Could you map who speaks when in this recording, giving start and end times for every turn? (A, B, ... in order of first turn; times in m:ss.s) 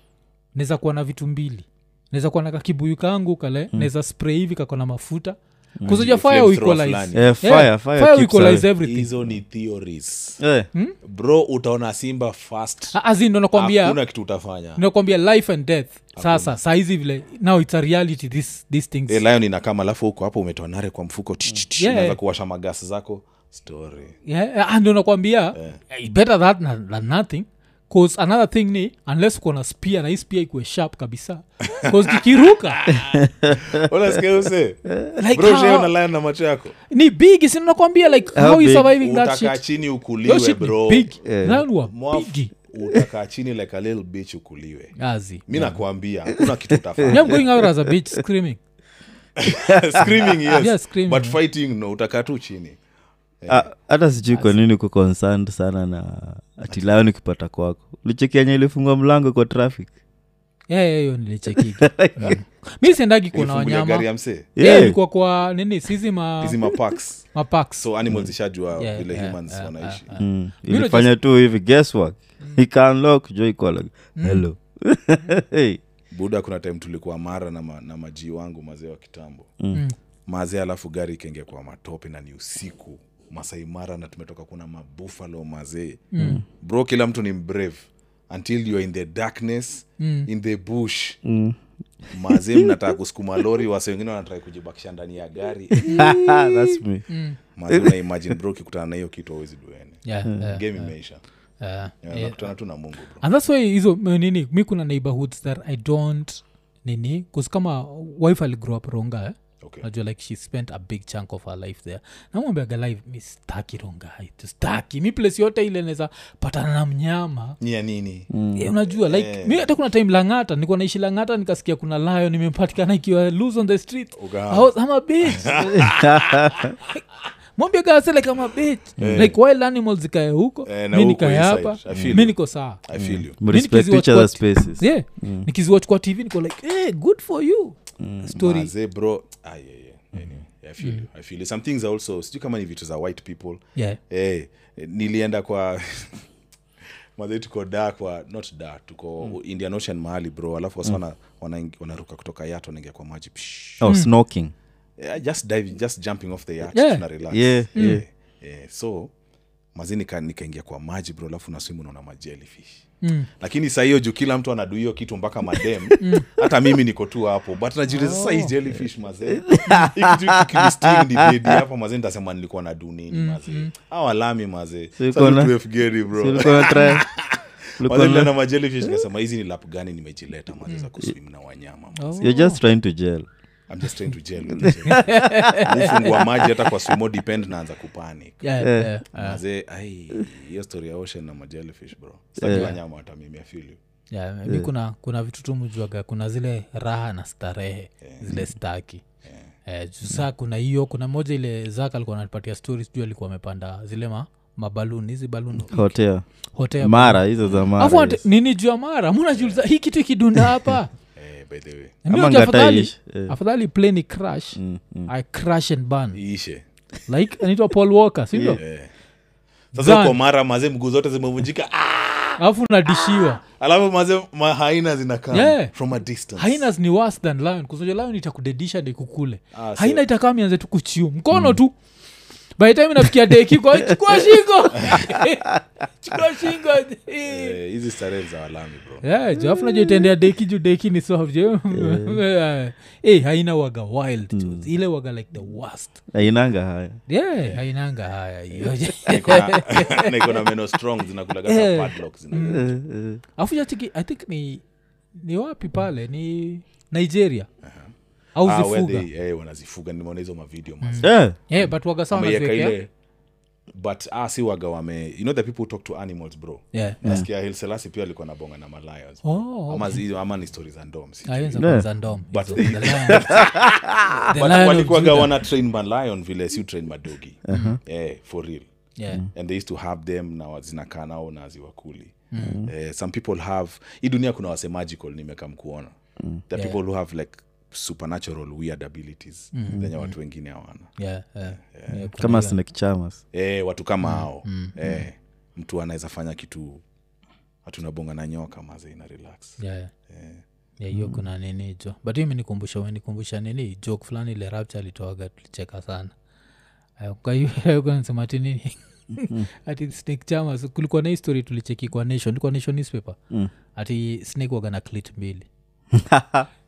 0:00.5-0:09.1 A
0:05.8-0:07.4 B
0:07.1-0:08.7 C
0:08.8-0:10.4 B
0:10.4-0:10.7 C
0:11.0-0:13.0 B
0:12.9-0:14.0 A
0:13.5-0:14.8 B
0:14.8-0:19.2 A
0:16.1-0:16.5 B
0:19.1-0:24.2 B
0:21.8-0:22.2 A
0:24.2-0:32.9 A
0:25.5-0:25.8 B
0:31.7-0:36.7 B
0:33.1-0:33.8 C
0:35.2-0:35.9 A
0:36.9-0:39.6 A
0:38.3-0:38.9 C
0:38.8-0:41.2 B
0:40.2-0:42.5 A
0:41.2-0:41.6 C
0:41.9-0:47.7 B
0:45.0-0:45.8 A
0:47.1-0:48.6 A
0:49.4-0:52.8 B
0:50.5-0:51.4 A
0:53.4-0:53.7 B
0:53.5-0:59.9 C
0:54.2-0:54.6 A
0:56.7-0:57.0 B
1:00.7-1:06.7 A
1:01.8-1:02.4 C
1:03.3-1:04.5 B
1:04.6-1:05.0 C
1:06.4-1:10.2 B
1:07.3-1:07.9 A
1:08.8-1:11.1 A
1:10.2-1:15.8 C
1:14.1-1:14.4 A
1:16.1-1:19.5 B
1:20.3-1:31.2 B
1:26.1-1:26.4 A
1:30.0-1:30.3 A
1:31.2-1:32.7 C
1:32.1-1:36.2 B
1:35.8-1:36.5 A
1:35.9-1:37.1 C
1:37.1-1:37.4 A
1:37.5-1:41.2 B
1:40.0-1:41.0 A
1:41.6-1:42.6 A
1:42.0-1:43.2 B
1:43.2-1:57.6 A
1:49.6-1:49.8 B
1:57.6-1:58.3 B
1:58.3-1:58.7 C
1:58.5-2:05.8 A
1:58.9-1:59.7 B
2:04.2-2:06.7 B
2:05.7-2:06.5 C
2:06.8-2:12.8 A
2:09.0-2:09.3 C
2:09.0-2:09.4 B
2:10.6-2:13.4 B
2:11.9-2:15.5 C
2:13.4-2:18.7 A
2:18.0-2:18.2 C
2:18.3-2:26.2 B
2:27.2-2:33.9 B
2:33.8-2:34.5 C
2:33.8-2:34.1 A
2:35.0-2:39.1 B
2:36.7-2:37.0 A
2:37.3-2:38.0 C
2:37.7-2:38.0 A
2:39.7-3:02.3 B
2:43.0-2:43.3 A
2:46.0-2:46.3 A
2:47.9-2:48.5 A
2:49.4-2:50.1 C
2:50.7-2:51.6 C
2:53.1-2:53.7 A
2:55.0-2:55.5 C
2:56.1-2:57.3 C
2:57.8-2:58.3 C
3:02.0-3:02.6 A
3:02.2-3:03.3 C
3:03.7-3:08.5 B
3:04.6-3:05.3 C
3:04.9-3:06.1 A
3:08.4-3:09.4 A
3:08.6-3:08.9 C
3:09.1-3:13.8 B
3:12.4-3:12.7 C
3:12.5-3:12.8 A
3:14.1-3:19.0 A
3:18.0-3:18.3 B
3:19.2-3:19.5 B
3:19.6-3:26.0 A
3:25.7-3:28.2 C
3:26.5-3:30.9 A
3:27.4-3:27.7 B
3:29.3-3:29.6 B
3:31.2-3:32.0 B
3:32.0-3:36.2 A
3:32.1-3:33.3 C
3:34.5-3:35.1 C
3:36.1-3:36.6 B
3:37.0-3:38.6 A
3:38.3-3:38.6 C
3:38.6-3:38.9 B
3:39.7-3:42.4 B
3:39.8-3:40.1 A
3:42.4-3:43.4 A
3:43.2-3:46.6 B
3:45.3-3:45.7 A
3:46.4-3:51.8 A
3:49.5-3:50.0 B
3:52.6-3:57.6 A
3:57.2-3:59.0 B
3:59.0-4:06.1 A
3:59.5-4:00.1 C
4:01.7-4:02.2 C
4:04.3-4:04.7 C
4:06.1-4:07.0 C
4:07.1-4:10.5 A
4:07.3-4:07.6 B
4:08.6-4:12.7 B
4:11.5-4:17.5 A
4:12.5-4:13.2 C
4:17.6-4:22.9 B
4:18.3-4:19.1 A
4:20.8-4:22.8 A
4:21.0-4:21.4 C
4:23.8-4:38.7 B
4:26.7-4:27.2 A
4:29.2-4:30.0 A
4:31.3-4:33.5 A
4:31.6-4:31.9 C
4:33.2-4:34.1 C
4:34.3-4:35.3 A
4:37.5-4:37.8 C
4:37.5-4:37.8 A
4:39.0-4:39.2 A
4:39.2-4:45.9 B
4:42.3-4:42.6 A
4:42.4-4:42.7 C
4:46.5-4:52.1 B
4:49.5-4:49.8 A
4:51.0-4:52.6 A
4:52.2-4:53.2 C
4:53.3-4:56.8 B
4:54.0-4:55.0 A
4:57.6-5:00.4 B
4:59.6-4:59.9 A
5:00.8-5:06.1 A
5:00.9-5:01.2 C
5:07.0-5:13.2 A
5:13.7-5:15.5 A
5:15.9-5:16.4 C